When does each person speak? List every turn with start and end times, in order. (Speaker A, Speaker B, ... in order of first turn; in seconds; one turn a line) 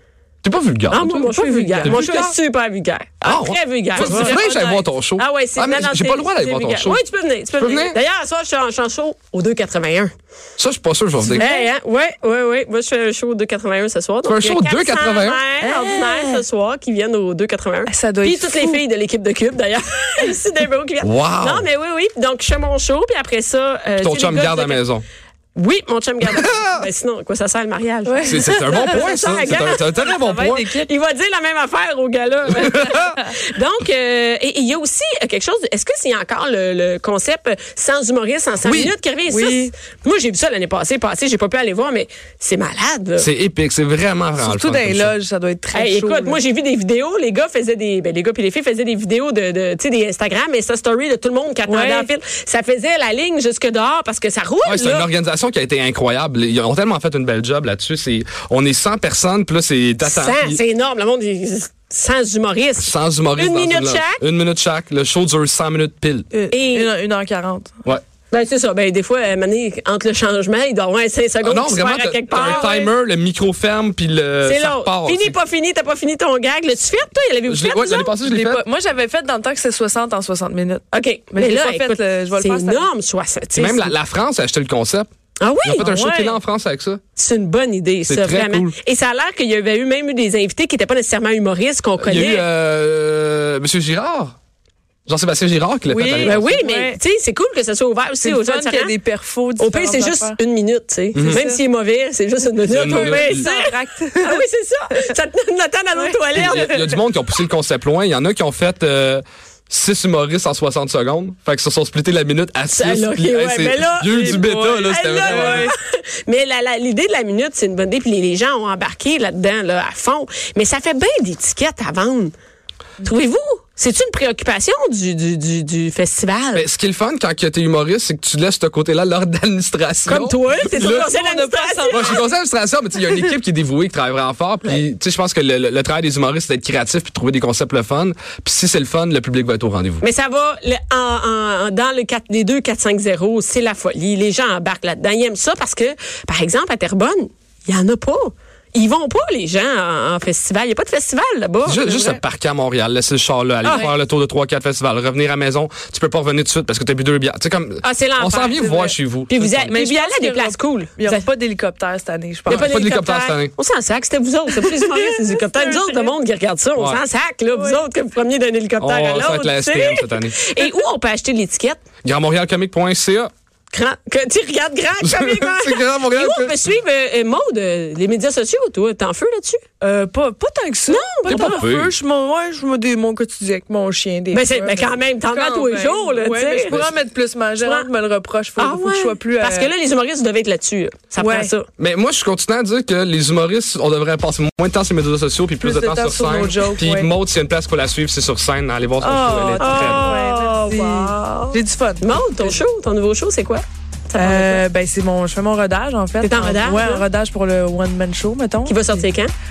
Speaker A: 0.4-2.4
Speaker B: 0.9-4.4
Speaker C: 1.4-2.0
Speaker A: 3.2-7.0
Speaker C: 4.0-4.9
Speaker B: 5.2-10.1
Speaker A: 7.6-8.0
Speaker A: 10.6-11.4
Speaker B: 11.3-24.8
Speaker C: 11.3-11.7
Speaker A: 14.2-15.4
Speaker C: 15.6-16.4
Speaker C: 17.9-18.8
Speaker A: 21.0-21.6
Speaker A: 24.0-25.0
Speaker B: 25.5-43.3
Speaker A: 26.3-26.6
Speaker C: 28.1-29.6
Speaker A: 28.2-30.6
Speaker C: 30.1-30.9
Speaker A: 32.5-33.0
Speaker A: 38.6-38.9
Speaker C: 39.3-39.7
Speaker A: 43.2-45.1
Speaker C: 44.4-46.4
Speaker B: 45.7-55.1
Speaker C: 51.7-52.1
Speaker A: 54.6-60.6
Speaker B: 60.0-64.2
Speaker A: 62.8-66.3
Speaker C: 66.3-67.8
Speaker B: 66.5-66.9
Speaker B: 68.3-72.9
Speaker A: 71.4-75.4
Speaker C: 72.3-72.7
Speaker B: 74.4-78.1
Speaker A: 77.5-78.6
Speaker C: 78.2-82.9
Speaker B: 80.9-83.9
Speaker A: 83.5-85.1
Speaker B: 85.4-85.9
Speaker A: 85.6-87.0
Speaker C: 85.8-86.4
Speaker B: 87.2-92.5
Speaker A: 88.0-88.7
Speaker A: 92.0-94.3
Speaker A: 95.1-96.5
Speaker C: 95.8-97.0
Speaker B: 96.2-98.9
Speaker C: 98.2-100.4
Speaker B: 99.6-106.8
Speaker A: 101.1-101.4
Speaker C: 101.2-101.6
Speaker A: 102.7-103.5
Speaker C: 102.7-105.1
Speaker C: 105.9-106.9
Speaker A: 106.3-115.7
Speaker B: 112.7-122.3
Speaker C: 114.1-115.7
Speaker B: 123.0-126.7
Speaker A: 126.5-131.0
Speaker B: 130.1-132.2
Speaker C: 130.6-132.2
Speaker A: 131.9-140.0
Speaker B: 140.0-151.8
Speaker A: 151.6-159.7
Speaker C: 151.7-152.2
Speaker B: 153.6-153.9
Speaker B: 157.8-158.6
Speaker C: 158.5-158.9
Speaker B: 159.3-161.2
Speaker C: 159.7-162.7
Speaker B: 162.5-171.8
Speaker A: 162.5-163.5
Speaker C: 164.9-166.1
Speaker A: 166.8-167.0
Speaker C: 167.5-167.8
Speaker A: 168.8-170.3
Speaker A: 172.0-173.3
Speaker B: 173.7-179.6
Speaker A: 175.0-176.6
Speaker C: 179.8-189.7
Speaker B: 180.9-181.7
Speaker A: 181.2-181.9
Speaker B: 184.3-186.9
Speaker B: 187.6-187.9
Speaker B: 188.6-191.7
Speaker C: 191.2-191.5
Speaker A: 191.8-200.1
Speaker C: 195.6-197.1
Speaker C: 199.0-202.6
Speaker B: 199.6-204.6
Speaker C: 204.1-209.1
Speaker B: 206.2-207.0
Speaker B: 208.6-209.3